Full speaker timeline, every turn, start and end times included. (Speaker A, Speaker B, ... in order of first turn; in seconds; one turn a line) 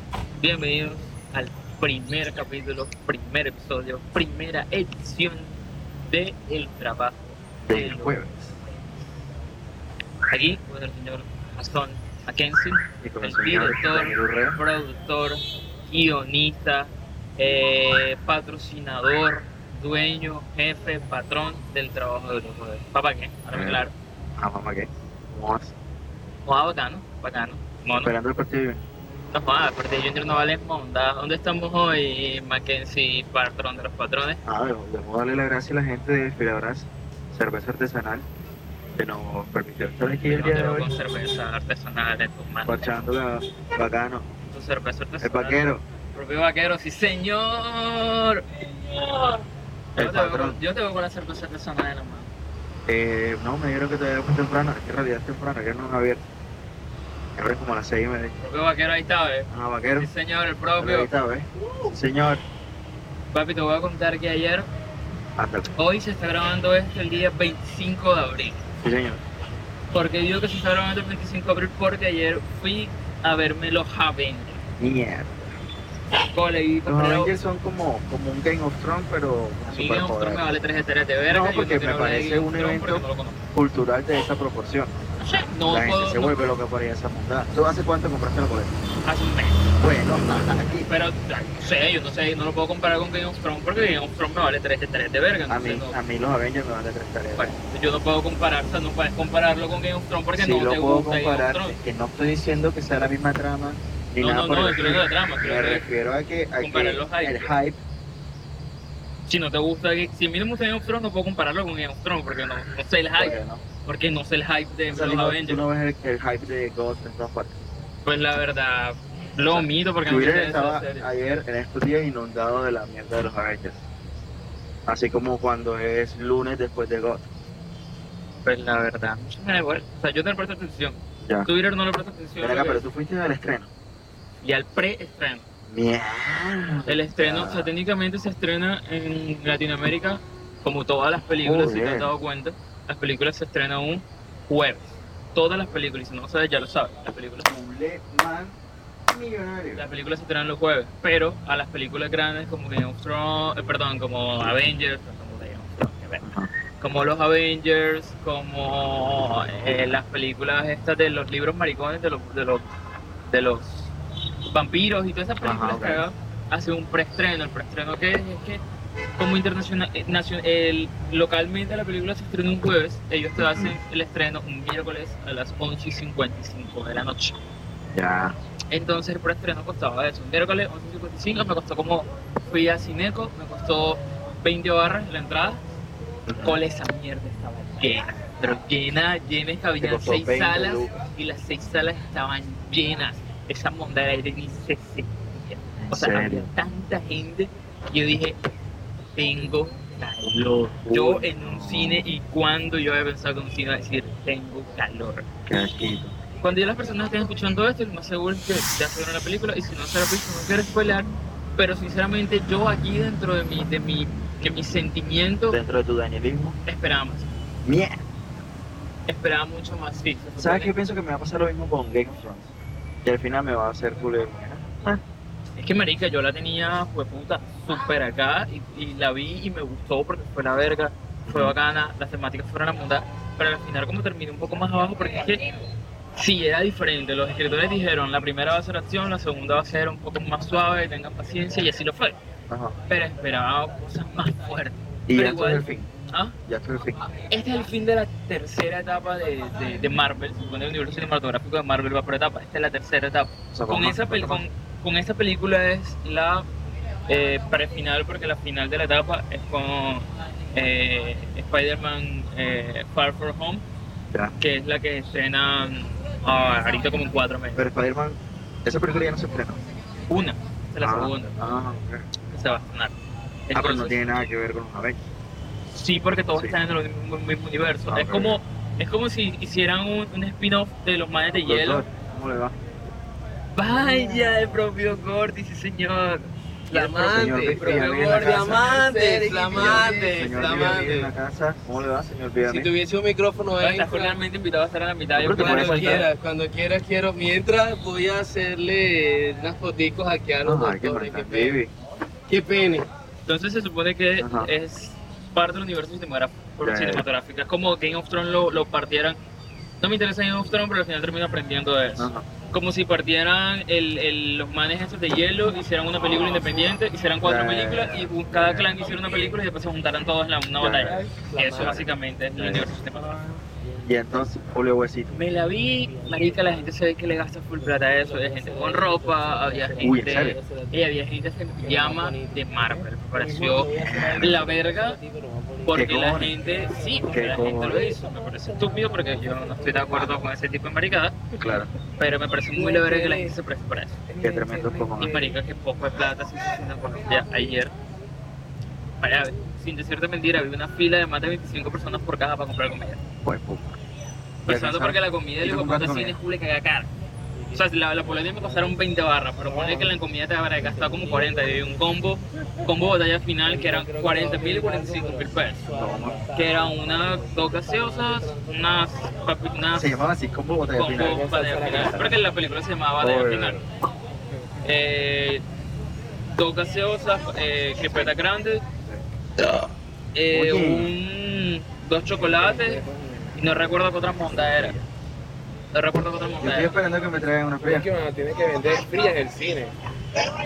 Speaker A: 0.4-5.5
Speaker A: 6.1-8.5
Speaker B: 7.6-8.4
Speaker A: 10.3-23.9
Speaker B: 13.0-14.6
Speaker B: 23.5-23.9
Speaker B: 24.4-25.7
Speaker A: 26.5-28.1
Speaker B: 28.0-28.8
Speaker A: 29.3-34.4
Speaker B: 34.5-38.2
Speaker B: 39.0-40.9
Speaker A: 40.3-43.1
Speaker B: 42.6-44.2
Speaker A: 44.5-49.5
Speaker B: 45.2-45.8
Speaker B: 50.0-50.6
Speaker A: 50.0-52.3
Speaker B: 52.9-56.2
Speaker B: 57.4-58.4
Speaker A: 58.4-59.5
Speaker B: 59.5-60.1
Speaker A: 60.0-61.1
Speaker B: 60.8-62.4
Speaker A: 63.3-64.7
Speaker B: 65.4-65.7
Speaker A: 65.8-68.6
Speaker B: 68.8-69.2
Speaker A: 69.9-74.6
Speaker B: 74.8-75.6
Speaker A: 76.3-77.3
Speaker B: 76.9-80.6
Speaker A: 79.7-83.4
Speaker B: 81.3-84.9
Speaker A: 85.2-86.4
Speaker B: 85.7-88.7
Speaker A: 89.0-89.7
Speaker B: 89.8-90.9
Speaker A: 90.9-96.0
Speaker B: 95.5-97.5
Speaker A: 97.4-101.8
Speaker B: 100.3-107.8
Speaker A: 104.2-105.8
Speaker A: 106.6-107.5
Speaker A: 109.3-115.6
Speaker B: 113.2-113.6
Speaker B: 114.9-117.6
Speaker A: 118.0-121.1
Speaker B: 119.5-123.8
Speaker B: 124.9-127.2
Speaker A: 128.4-132.8
Speaker B: 131.2-131.5
Speaker B: 132.4-133.7
Speaker A: 134.4-135.5
Speaker B: 135.7-137.7
Speaker A: 136.9-147.5
Speaker B: 141.4-142.1
Speaker B: 147.4-148.5
Speaker B: 149.1-149.8
Speaker A: 149.7-156.2
Speaker B: 156.2-156.5
Speaker A: 156.8-162.7
Speaker A: 163.3-163.9
Speaker A: 164.5-168.6
Speaker B: 165.4-166.0
Speaker A: 169.2-177.4
Speaker B: 173.4-173.8
Speaker B: 177.9-178.4
Speaker A: 178.7-185.6
Speaker B: 186.3-186.6
Speaker A: 186.4-198.4
Speaker B: 189.8-190.9
Speaker B: 195.8-196.5
Speaker A: 199.2-205.3
Speaker B: 200.8-202.1
Speaker B: 205.5-206.2
Speaker A: 206.4-215.6
Speaker B: 215.5-216.6
Speaker A: 216.7-217.3
Speaker B: 217.7-218.0
Speaker A: 219.1-220.7
Speaker B: 220.4-222.5
Speaker B: 223.1-225.0
Speaker A: 225.6-235.4
Speaker B: 231.3-231.6
Speaker A: 236.2-242.2
Speaker B: 242.5-242.8
Speaker A: 242.9-246.3
Speaker B: 245.1-245.9
Speaker B: 246.5-247.0
Speaker A: 247.3-256.5
Speaker B: 253.5-254.4
Speaker A: 257.1-263.6
Speaker A: 264.4-267.6
Speaker B: 267.6-269.6
Speaker A: 270.1-271.4
Speaker B: 270.8-272.1
Speaker A: 272.3-272.9
Speaker A: 273.5-274.1
Speaker B: 273.5-275.0
Speaker A: 275.7-281.9
Speaker B: 277.9-278.4
Speaker B: 281.4-282.6
Speaker A: 283.6-286.3
Speaker B: 286.7-288.7
Speaker C: 286.7-291.1
Speaker A: 287.1-290.1
Speaker B: 289.5-292.7
Speaker C: 292.4-294.2
Speaker A: 293.6-296.1
Speaker B: 295.1-296.1
Speaker C: 295.3-301.6
Speaker B: 300.4-301.7
Speaker C: 302.3-302.9
Speaker A: 303.3-309.2
Speaker B: 304.2-304.5
Speaker B: 306.6-307.1
Speaker A: 309.8-323.2
Speaker B: 312.0-312.3
Speaker B: 317.2-318.7
Speaker D: 318.8-319.3
Speaker B: 320.6-321.0
Speaker C: 320.9-321.9
Speaker B: 321.6-321.9
Speaker B: 322.4-322.7
Speaker D: 322.9-323.4
Speaker C: 323.6-324.3
Speaker B: 323.9-325.2
Speaker A: 325.1-335.0
Speaker C: 325.4-326.8
Speaker C: 327.6-330.8
Speaker B: 329.8-330.4
Speaker C: 331.6-335.9
Speaker B: 333.7-334.5
Speaker A: 335.6-341.2
Speaker B: 335.7-336.3
Speaker C: 336.4-337.2
Speaker B: 337.1-337.8
Speaker C: 338.6-338.9
Speaker B: 341.4-341.7
Speaker A: 342.0-344.0
Speaker C: 342.5-343.4
Speaker C: 344.1-345.4
Speaker B: 344.2-345.2
Speaker A: 345.0-347.7
Speaker A: 349.0-353.0
Speaker B: 353.2-353.8
Speaker A: 354.4-356.9
Speaker B: 354.5-356.2
Speaker C: 357.3-358.8
Speaker A: 357.6-365.6
Speaker C: 359.4-359.9
Speaker C: 360.6-361.9
Speaker C: 363.4-368.8
Speaker B: 365.7-366.2
Speaker A: 366.3-369.9
Speaker B: 369.8-372.1
Speaker A: 370.7-373.6
Speaker D: 370.9-372.0
Speaker C: 371.2-371.9
Speaker B: 373.0-373.6
Speaker A: 374.6-375.4
Speaker A: 376.4-378.6
Speaker B: 378.9-379.7
Speaker A: 380.1-382.8
Speaker B: 380.3-380.9
Speaker D: 382.4-383.3
Speaker A: 383.4-384.8
Speaker B: 384.2-384.9
Speaker A: 385.7-386.8
Speaker B: 386.4-387.9
Speaker D: 387.6-389.8